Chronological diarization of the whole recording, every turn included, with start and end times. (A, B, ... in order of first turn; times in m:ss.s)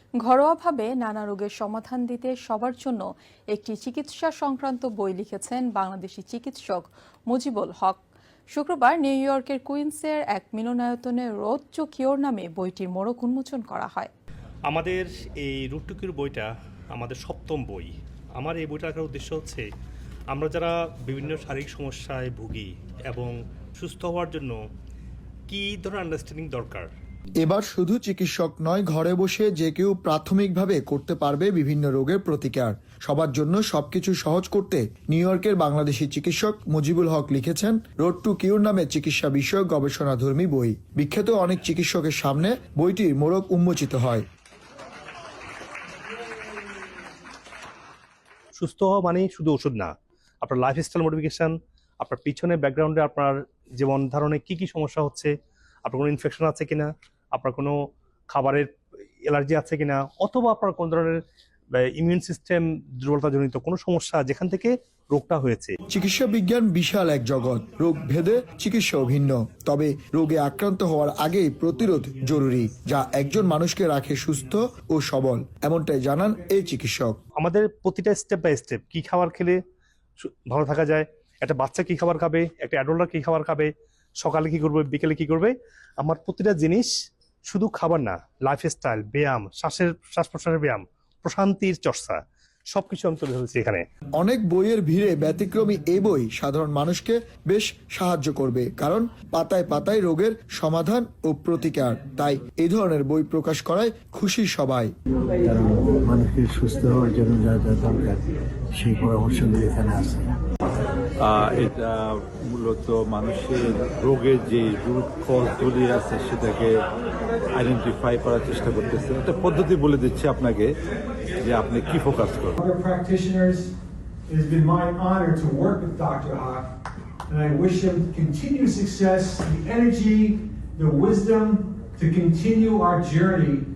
0:00.2-0:08.0 A
0:08.5-0:14.1 A
0:14.7-0:19.7 B
0:20.3-0:24.6 B
0:25.5-0:26.9 B
0:27.4-0:44.3 C
0:48.6-0:55.3 B
0:55.8-0:57.8 B
0:58.3-0:58.7 B
0:59.2-1:01.2 B
1:01.8-1:05.8 B
1:05.9-1:17.2 C
1:17.4-1:19.6 B
1:20.2-1:26.9 B
1:27.5-1:32.2 B
1:32.7-1:33.8 B
1:34.2-1:44.9 C
1:45.4-1:50.4 D
1:51.2-1:56.8 E
1:57.5-2:00.8 E
2:01.4-2:02.6 E
2:02.6-2:03.7 F
2:04.3-2:06.7 F
2:07.3-2:13.6 F